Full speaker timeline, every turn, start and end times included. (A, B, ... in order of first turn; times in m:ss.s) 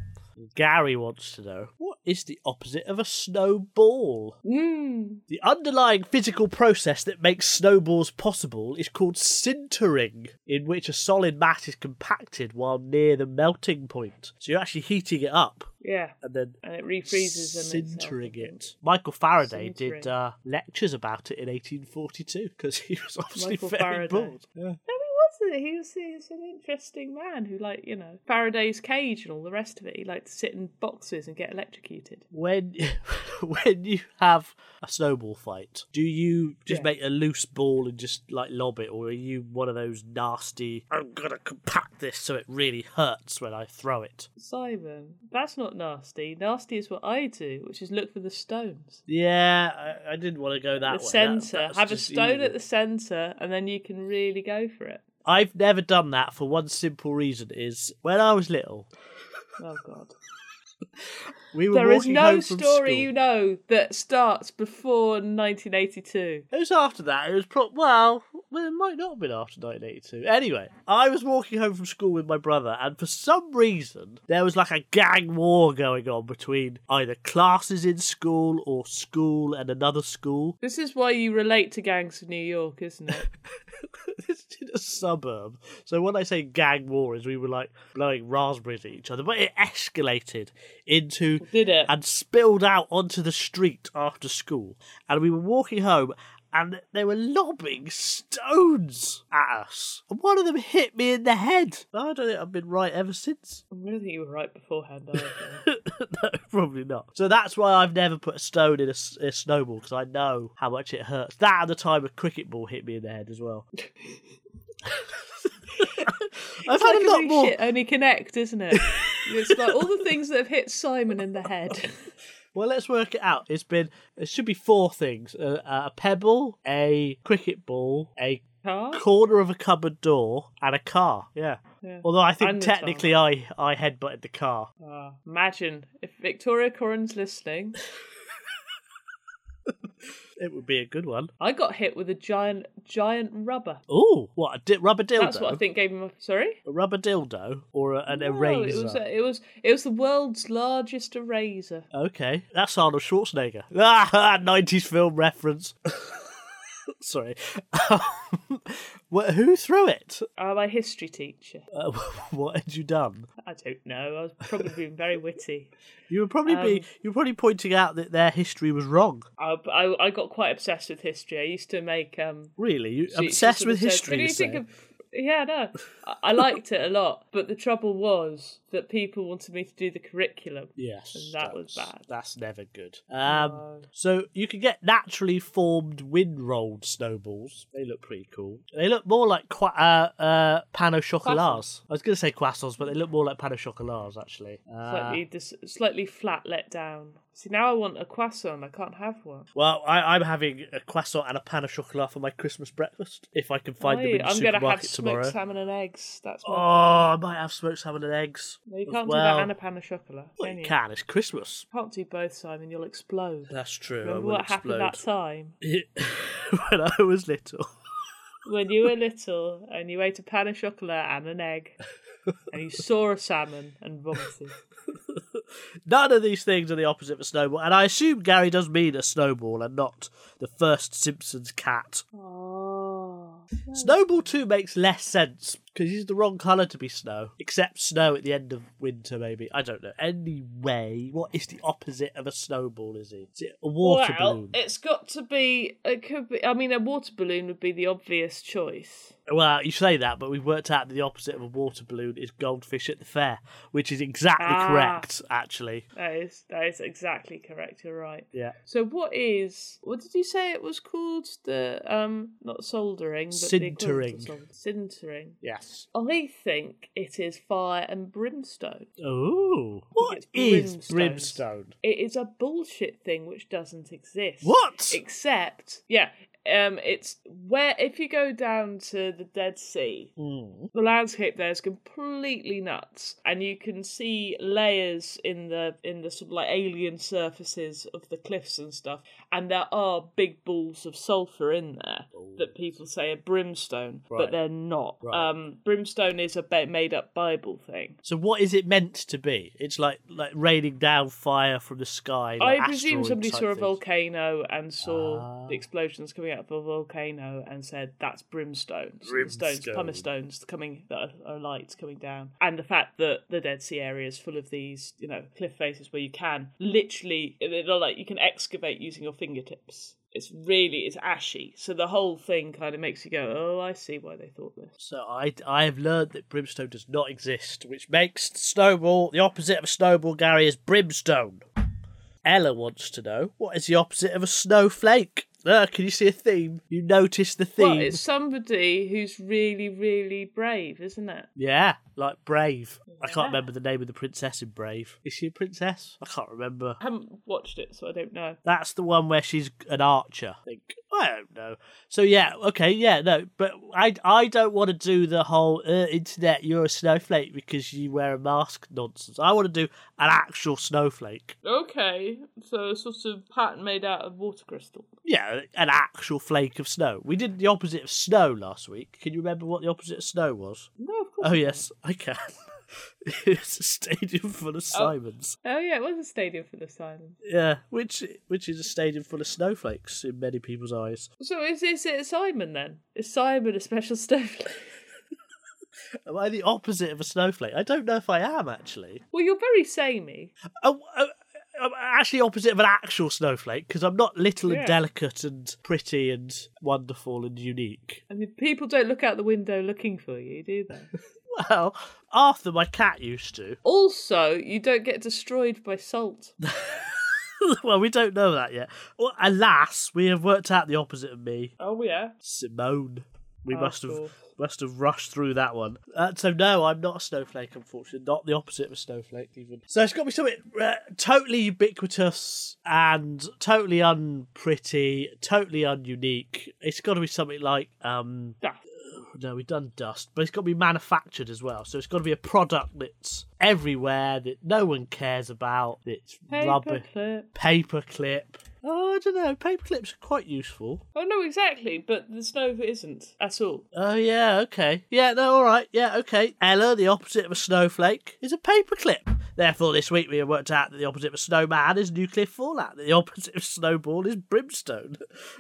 0:00.4-0:04.4 A
0:04.4-0:05.2 B
0:05.3-0:15.7 A
0:15.8-0:18.6 B
0:16.2-0:24.8 A
0:19.4-0:20.1 B
0:23.4-0:32.2 B
0:32.3-0:44.3 A
0:44.4-0:49.0 B
0:49.1-0:52.6 A
0:50.8-0:55.0 B
0:55.2-0:58.9 A
0:59.6-1:00.1 B
1:01.5-1:03.1 A
1:01.7-1:06.5 B
1:06.5-1:20.6 A
1:20.6-1:23.2 B
1:23.8-1:43.6 A
1:31.4-1:31.9 B
1:43.7-1:45.6 B
1:45.1-1:53.7 A
1:53.9-1:54.2 B
1:55.8-1:56.2 B
1:55.8-1:56.1 A
1:56.6-1:57.6 A
1:56.7-2:02.0 B
1:58.7-2:00.0 A
2:02.5-2:14.7 A
2:08.6-2:09.0 B
2:11.8-2:13.1 B
2:14.8-2:17.8 B
2:20.4-2:21.3 A
2:21.4-2:23.8 B
2:23.9-2:25.6 A
2:25.2-2:26.6 B
2:26.7-2:29.0 A
2:28.1-2:31.9 B
2:31.9-2:36.4 A
2:37.0-2:40.2 A
2:40.4-2:41.6 B
2:41.7-2:43.3 A
2:43.4-2:45.7 B
2:46.1-2:49.2 A
2:46.4-2:46.9 B
2:49.4-2:52.6 B
2:52.6-2:54.6 A
2:53.1-3:02.0 B
3:00.8-3:15.2 A
3:03.2-3:03.9 B
3:11.2-3:11.6 B
3:14.8-3:19.5 B
3:19.5-3:25.4 A
3:23.8-3:27.1 B
3:26.4-3:29.5 A
3:28.7-3:30.8 B
3:30.4-3:31.7 A
3:31.7-3:35.6 B
3:33.5-3:35.0 A
3:35.6-3:37.7 A
3:38.5-3:41.8 B
3:42.5-3:44.6 B
3:45.9-3:52.0 A
3:52.1-3:54.1 B
3:53.8-4:04.6 A
4:03.8-4:09.2 B
4:09.3-4:15.9 A
4:14.4-4:15.1 B
4:16.0-4:25.4 B
4:23.3-4:24.4 A
4:25.4-4:25.9 A
4:25.9-4:28.9 B
4:29.0-4:31.7 A
4:30.0-4:40.1 B
4:34.4-4:35.0 A
4:40.2-4:40.7 A
4:40.7-4:58.0 B
4:52.1-4:52.8 A
4:54.1-4:54.4 A
4:55.0-4:55.3 A
4:58.0-5:03.8 A
5:02.4-5:24.7 B
5:04.8-5:05.6 A
5:09.0-5:10.1 A
5:24.8-5:31.4 A
5:32.2-5:38.0 A
5:37.6-5:41.3 B
5:41.4-5:46.8 A
5:42.9-5:43.5 B
5:46.8-5:48.4 B
5:48.4-6:01.4 A
6:01.4-6:04.9 B
6:05.0-6:10.7 A
6:10.8-6:11.7 B
6:11.2-6:12.2 A
6:13.1-6:15.4 A
6:14.7-6:17.2 B
6:17.2-6:21.1 A
6:21.2-6:24.7 B
6:26.1-6:29.0 A
6:29.1-6:30.3 B
6:30.6-6:38.0 A
6:34.5-6:34.8 B
6:38.1-6:40.9 B
6:41.3-6:43.6 A
6:43.6-6:46.3 B
6:46.4-6:51.5 A
6:51.6-6:52.2 B
6:52.2-7:20.8 A
6:53.5-6:54.2 B
7:16.3-7:17.3 B
7:21.0-7:23.7 B
7:23.7-7:35.0 A